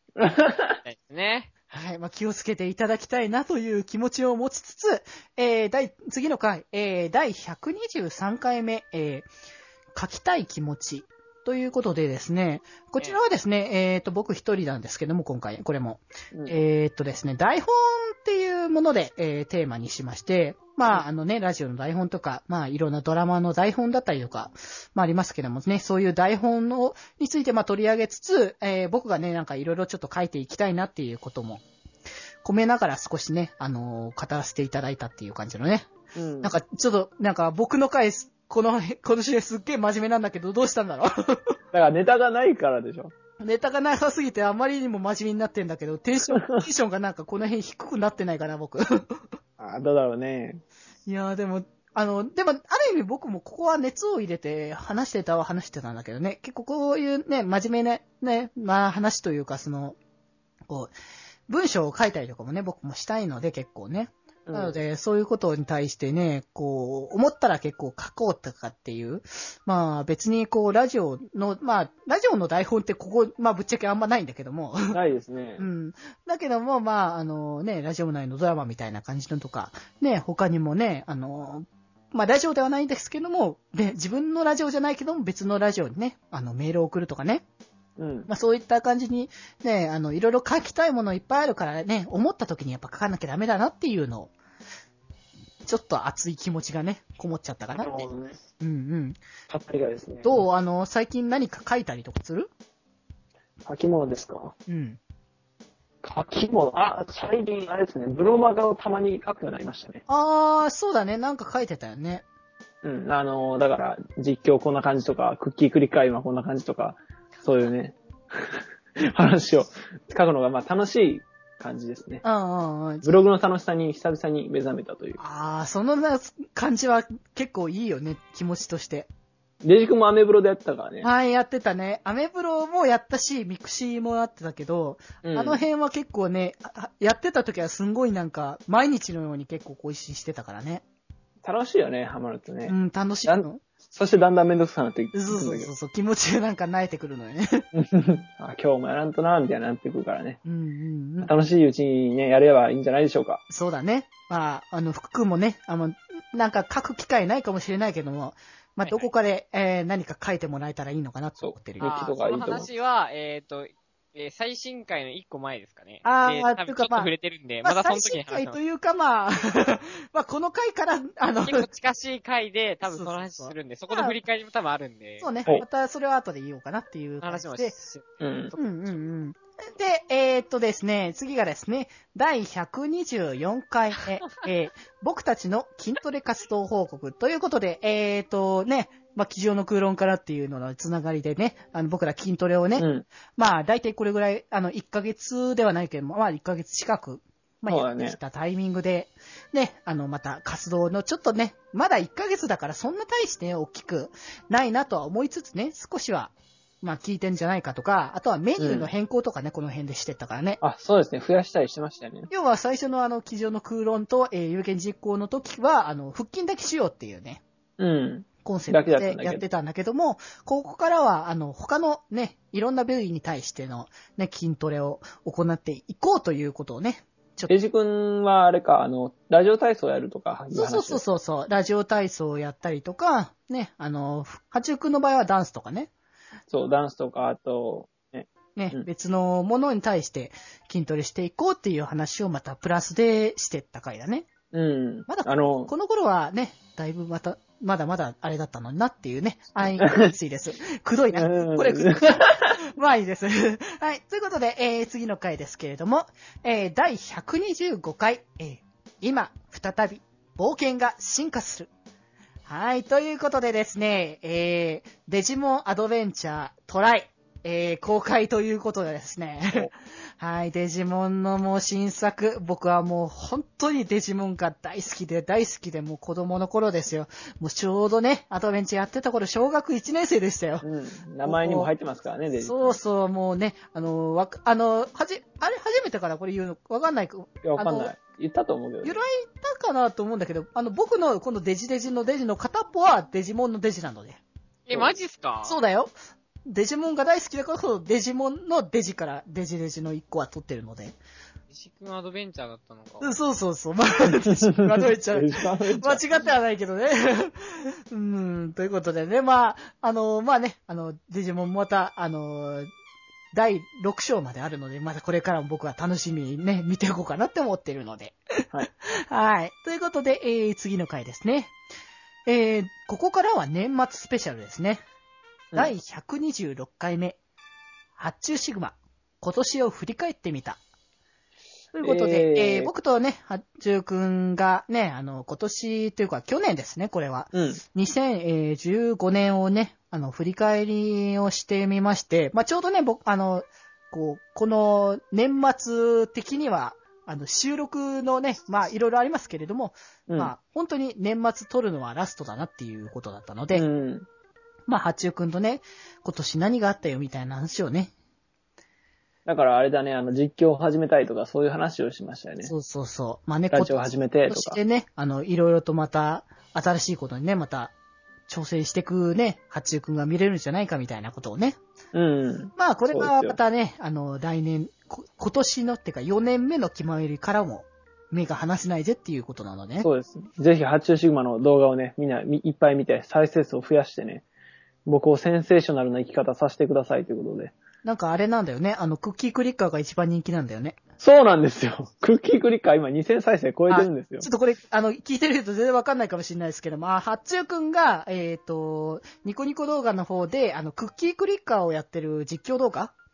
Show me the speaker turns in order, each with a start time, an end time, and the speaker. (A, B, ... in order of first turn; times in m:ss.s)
0:00.2-0:00.8 A
0:00.8-0:01.5 B
0:01.7-0:09.3 C
0:09.9-0:31.6 C
0:16.3-0:16.6 A
0:32.4-0:41.4 C
0:36.1-0:36.5 A
0:41.7-0:43.1 A
0:43.4-0:49.2 C
0:46.3-0:46.6 A
0:49.6-0:50.6 A
0:51.0-1:00.0 C
1:01.5-1:15.0 C
1:04.4-1:04.8 A
1:14.9-1:15.6 A
1:15.6-1:27.4 C
1:28.0-1:28.3 A
1:28.3-1:34.3 C
1:35.6-1:38.1 C
1:37.8-1:38.4 A
1:38.6-1:39.2 C
1:39.5-1:40.4 A
1:40.2-1:42.5 C
1:43.6-1:44.5 A
1:44.7-1:45.0 C
1:46.0-1:50.0 A
1:50.1-1:52.2 C
1:52.8-2:02.2 A
2:02.2-2:03.1 C
2:03.0-2:05.2 A
2:05.2-2:09.1 C
2:09.6-2:11.1 A
2:11.0-2:20.8 C
2:15.2-2:15.6 A
2:21.4-2:25.7 A
2:22.7-2:23.6 C
2:25.1-2:27.6 C
2:27.7-2:30.4 A
2:30.4-2:31.3 C
2:31.2-2:33.4 A
2:33.5-2:41.9 C
2:41.4-2:42.7 A
2:41.8-2:48.6 B
2:46.0-2:47.1 C
2:47.6-2:51.7 C
2:51.4-2:55.3 B
2:52.8-2:54.2 C
2:55.2-2:57.8 C
2:57.2-2:59.0 B
2:58.2-2:58.5 A
2:58.6-3:30.6 C
3:12.8-3:13.1 A
3:17.7-3:18.2 A
3:28.6-3:28.9 A
3:30.6-3:32.3 A
3:32.3-3:37.4 C
3:37.8-3:39.4 A
3:38.4-3:47.5 C
3:47.5-3:51.0 A
3:50.5-3:55.9 C
3:56.5-3:58.9 A
3:58.6-4:04.3 C
4:04.5-4:05.7 A
4:05.1-4:21.7 C
4:09.8-4:10.1 A
4:11.1-4:12.6 A
4:22.4-4:40.6 C
4:40.6-4:42.8 A
4:41.2-4:41.7 C
4:42.4-4:47.9 C
4:47.4-4:49.0 A
4:48.8-4:54.2 C
4:54.7-4:55.6 B
4:55.4-4:55.9 C
4:56.4-5:01.0 C
5:01.5-5:03.2 B
5:03.0-5:12.7 C
5:04.2-5:06.0 A
5:13.3-5:18.2 C
5:18.8-5:21.5 C
5:22.2-5:24.8 C
5:25.5-5:27.2 C
5:28.0-5:30.6 C
5:31.7-5:53.6 C
5:31.8-5:32.7 A
5:37.3-5:37.6 A
5:50.1-5:50.3 A
5:53.5-5:54.1 A
5:54.7-5:57.9 C
5:59.2-6:02.5 A
6:02.4-6:03.8 C
6:03.5-6:04.6 A
6:04.3-6:07.7 C
6:08.3-6:11.6 C
6:11.9-6:13.4 A
6:12.6-6:19.9 C
6:19.8-6:24.2 A
6:24.8-6:27.5 A
6:27.8-6:30.8 C
6:31.0-6:34.3 A
6:33.7-6:42.9 C